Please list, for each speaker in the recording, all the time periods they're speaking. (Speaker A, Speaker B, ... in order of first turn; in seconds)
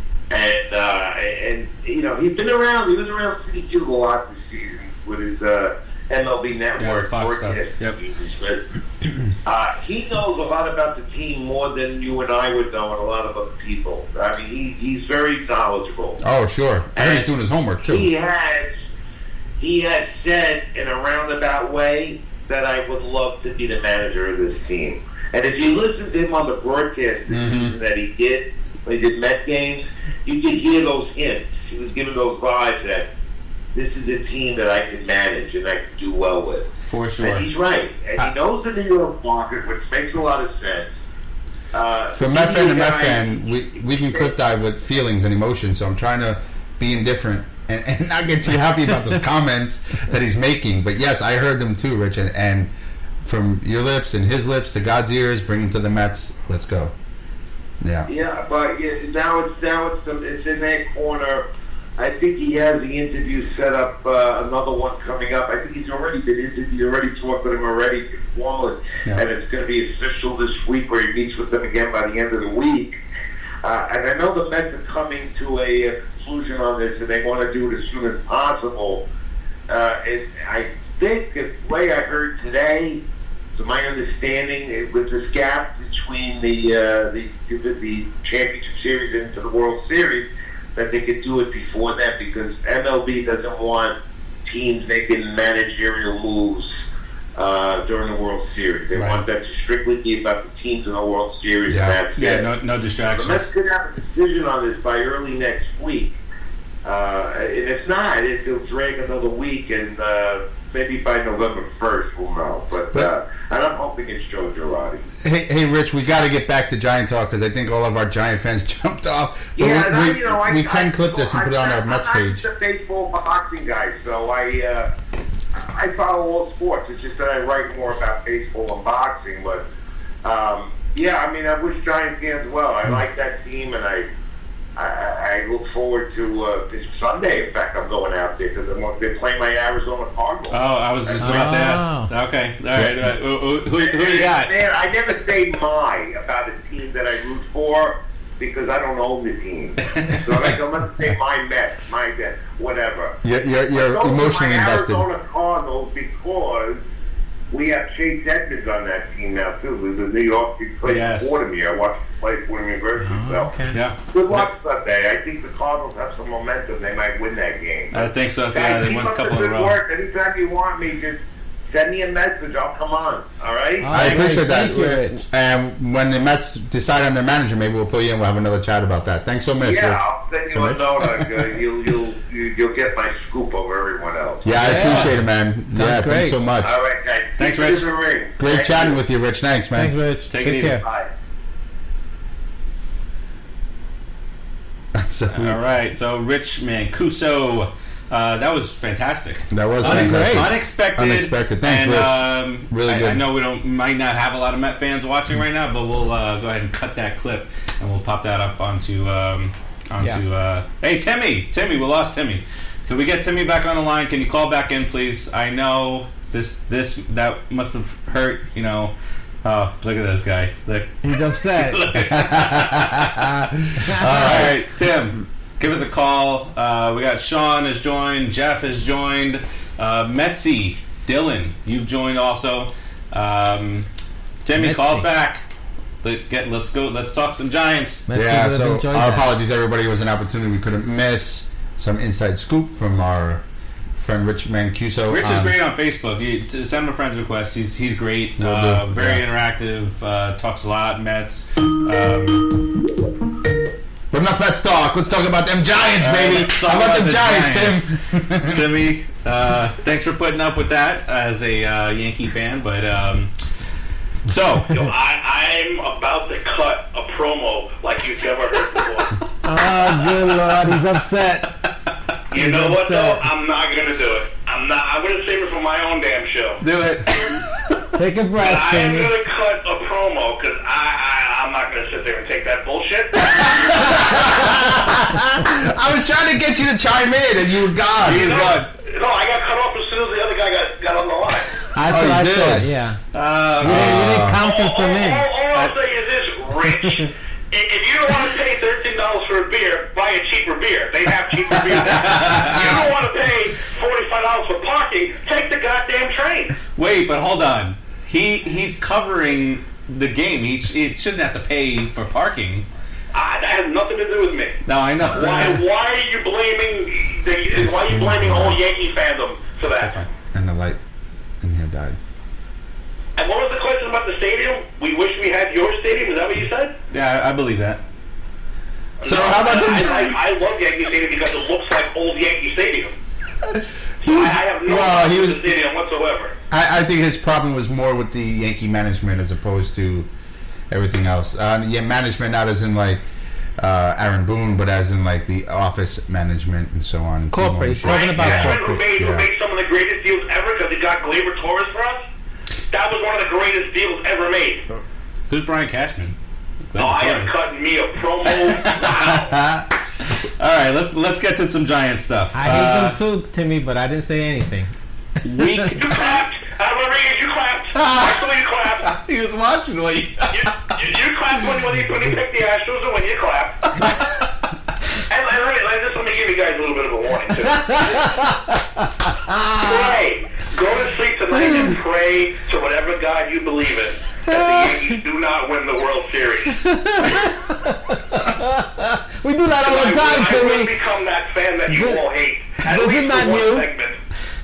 Speaker A: 0.3-16.2, 17.0-17.3, 17.8-18.7, 19.6-33.1, 33.8-36.7, 37.2-40.9, 41.7-43.3, 58.1-61.4, 62.0-73.0, 73.6-79.0, 79.7-83.0, 83.5-96.7, 97.4-102.5, 103.1-106.2, 106.8-115.1, 119.6-124.9, 125.5-129.6, 130.2-134.1, 134.8-140.6, 141.1-141.5, 143.8-153.2, 153.7-156.8, 157.5-163.5, 164.1-174.0, 179.6-184.9, 186.6-189.0, 190.6-191.1
Speaker B: 6.8-8.0, 36.9-37.5, 98.9-99.2, 102.2-103.5, 140.5-144.6, 149.9-150.5, 160.8-161.4, 163.7-164.5, 167.9-169.8, 174.0-174.3, 184.6-185.2, 187.4-187.9, 190.3-190.8, 195.3-218.9, 219.4-223.2, 224.0-233.9, 234.4-235.5, 236.0-238.1, 245.1-252.6, 256.0-263.3, 264.3-264.7, 276.6-277.8, 288.0-288.7, 293.1-294.2, 301.8-302.7, 306.8-312.7, 314.6-315.6, 319.8-320.1, 326.9-327.8, 355.3-356.2, 356.7-357.3, 358.3-359.1, 360.4-363.0, 365.2-366.2, 367.8-368.2, 368.8-370.5
Speaker C: 16.2-18.1, 27.3-27.8, 42.1-52.7, 53.2-56.9, 57.8-58.1, 101.7-102.0, 115.2-122.5, 153.2-155.1, 173.9-181.5, 184.4-186.8, 188.4-189.9, 194.9-195.6, 199.5-203.2, 222.2-224.6, 238.1-243.4, 244.0-245.6, 248.4-249.3, 254.1-258.6, 283.2-288.5, 291.9-292.7, 293.6-294.4, 317.6-318.6, 320.3-320.8, 321.4-322.0, 329.0-330.2, 334.0-335.5, 336.5-340.1, 340.7-343.0, 343.6-349.3, 359.1-359.6
Speaker D: 141.2-142.1, 163.0-163.8, 173.8-175.2, 184.6-185.2, 185.7-186.4, 189.8-190.8, 199.8-200.6, 221.0-221.9, 223.9-224.3, 234.6-235.1, 238.1-239.3, 269.4-271.6, 272.3-273.2, 278.0-279.2, 291.8-293.0, 293.6-295.3, 347.3-348.9, 362.3-364.7, 377.5-378.4, 379.3-379.6, 384.3-384.8, 386.5-390.7, 391.7-392.1, 392.6-393.7
Speaker E: 264.7-269.2, 272.3-276.6, 278.4-284.2, 288.1-291.6, 294.4-306.6, 313.1-314.6, 315.1-320.0, 323.2-326.7, 329.0-332.9, 334.0-336.3, 347.8-352.1, 352.7-354.6, 356.8-359.4, 365.8-368.9, 370.3-373.6, 375.1-378.1, 379.6-386.6, 389.6-394.0